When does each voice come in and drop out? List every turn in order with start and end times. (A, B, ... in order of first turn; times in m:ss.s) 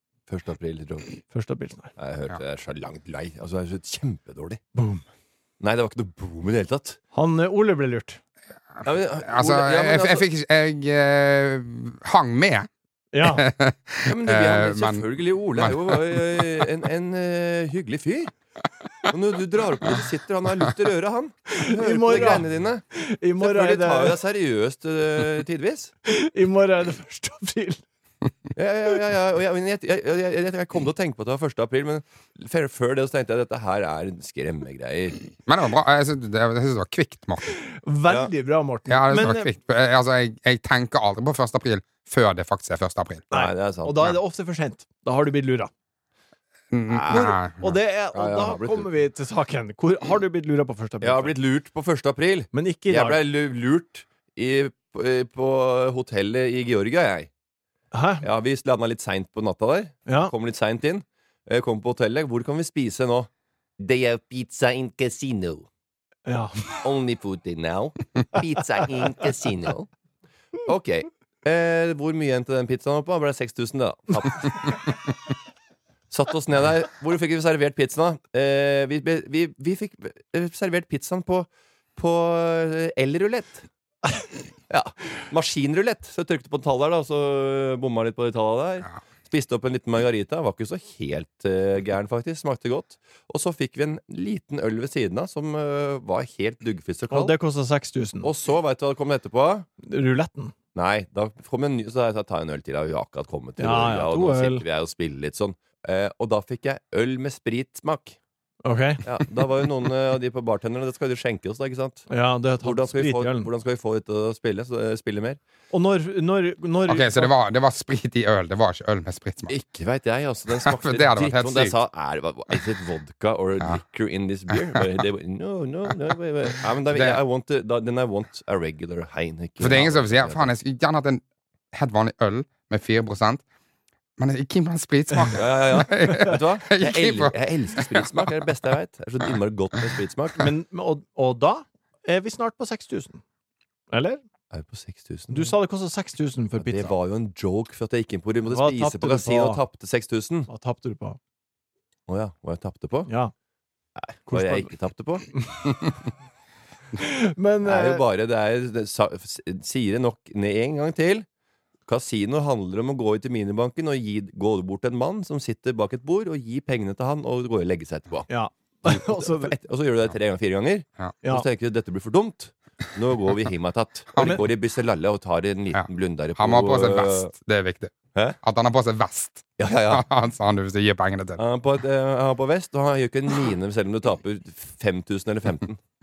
0:00.3-0:01.2 A
0:01.3-0:01.9 B
0:02.0-0:04.6 A
0:04.8-0:05.0 B
0:05.6-0:07.0 A
0:07.1-0:08.2 B
0:08.8-0:10.2 A
0:09.3-0:12.7 C
0:13.1-0:13.5 B
0:13.2-0:16.7 C
0:14.1-0:18.3 A
0:19.1-0:22.8 A
0:21.5-0:24.2 B
0:23.4-0:25.9 A
0:26.1-0:27.8 B
0:28.6-0:35.3 A
0:35.5-0:37.5 C
0:37.5-0:39.5 B
0:38.9-0:43.2 C
0:43.3-0:44.1 A
0:43.3-0:45.7 B
0:46.7-0:47.8 C
0:46.9-0:47.4 A
0:47.1-0:51.4 B
0:48.1-0:48.9 A
0:51.0-0:57.3 A
0:52.5-0:53.2 B
0:57.9-0:58.3 B
0:58.2-1:05.7 A
1:00.1-1:00.3 B
1:06.3-1:06.8 B
1:06.8-1:09.9 A
1:10.7-1:14.8 A
1:16.1-1:23.7 A
1:24.7-1:37.4 A
1:37.1-1:38.3 B
1:38.2-1:39.7 A
1:39.8-1:40.5 B
1:40.8-1:48.2 A
1:43.6-1:44.6 B
1:48.6-1:49.0 B
1:49.0-1:52.1 A
1:52.1-1:53.5 B
1:52.6-1:55.4 A
1:55.7-1:57.3 B
1:56.9-1:59.6 C
1:59.5-2:10.5 A
2:00.6-2:01.7 C
2:06.9-2:07.2 C
2:09.6-2:11.2 C
2:11.7-2:13.4 C
2:14.2-2:18.3 C
2:15.3-2:20.5 A
2:20.4-2:23.2 B
2:23.9-2:24.2 B
2:24.5-2:25.5 A
2:25.3-2:26.9 B
2:26.6-2:30.5 A
2:28.5-2:29.6 B
2:30.5-2:31.2 B
2:32.1-2:33.1 A
2:33.1-2:33.3 B
2:34.0-2:35.3 A
2:34.3-2:34.7 B
2:37.0-2:38.0 B
2:37.6-2:41.3 A
2:41.9-2:48.3 A
2:48.3-2:49.5 B
2:49.1-2:57.3 A
2:54.2-2:54.5 B
2:56.4-3:01.4 C
2:59.6-3:00.0 A
3:01.4-3:05.8 A